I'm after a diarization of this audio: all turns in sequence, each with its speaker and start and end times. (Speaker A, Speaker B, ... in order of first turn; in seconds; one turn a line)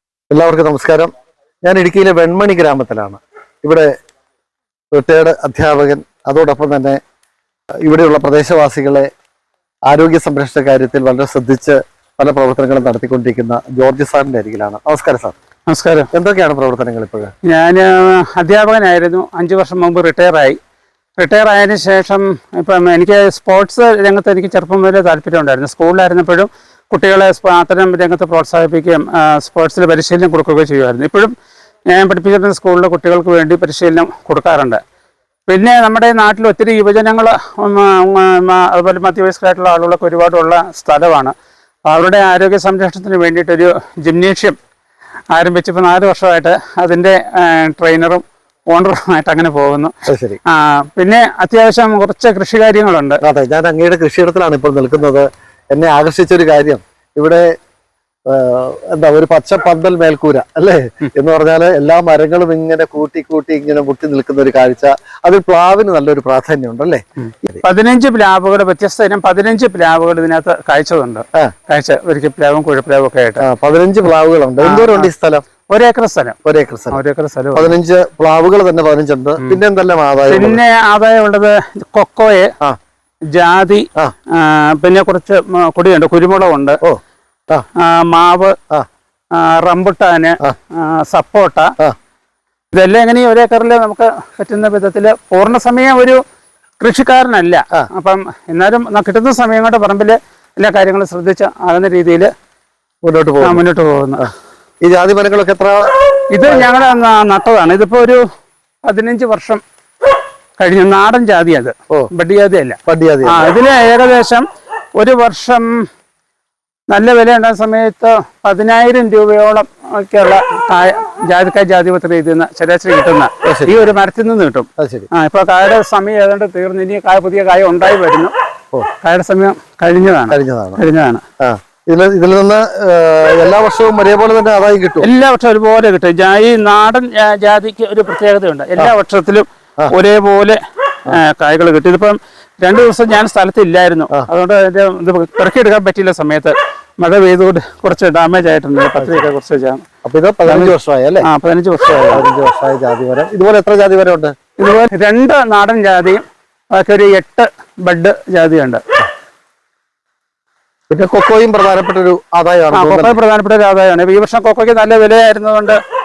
Speaker A: 0.3-1.1
Speaker A: 1.6-3.9
Speaker A: 4.9-7.0
Speaker A: 7.8-9.1
Speaker A: 9.9-15.3
Speaker B: 15.7-16.1
Speaker A: 16.1-17.3
Speaker B: 17.4-20.6
Speaker B: 21.2-31.3
Speaker B: 31.9-34.8
Speaker B: 35.5-41.3
Speaker B: 41.9-44.5
Speaker B: 45.3-49.9
Speaker A: 50.1-50.4
Speaker B: 50.5-53.2
Speaker A: 53.2-57.5
Speaker A: 58.3-67.6
Speaker B: 67.2-73.4
Speaker A: 73.4-75.4
Speaker B: 74.6-75.1
Speaker B: 75.7-76.4
Speaker A: 76.4-77.0
Speaker B: 76.9-77.7
Speaker A: 77.5-80.6
Speaker B: 80.3-82.5
Speaker B: 83.3-86.8
Speaker A: 86.8-87.7
Speaker B: 87.8-88.5
Speaker B: 89.3-91.7
Speaker B: 92.7-96.2
Speaker B: 96.8-102.3
Speaker A: 103.0-103.6
Speaker B: 103.4-104.3
Speaker A: 104.8-106.7
Speaker B: 106.3-108.2
Speaker B: 108.8-109.6
Speaker B: 110.6-114.5
Speaker A: 112.9-113.5
Speaker B: 115.0-115.8
Speaker B: 116.9-128.3
Speaker A: 123.4-123.9
Speaker A: 124.8-125.1
Speaker B: 129.0-131.2
Speaker A: 130.3-130.8
Speaker A: 131.4-135.1
Speaker B: 135.0-149.8
Speaker A: 149.0-149.3
Speaker A: 150.0-151.3
Speaker B: 150.4-152.2
Speaker A: 151.9-154.3
Speaker B: 154.6-158.8
Speaker A: 160.9-163.2
Speaker B: 162.7-165.8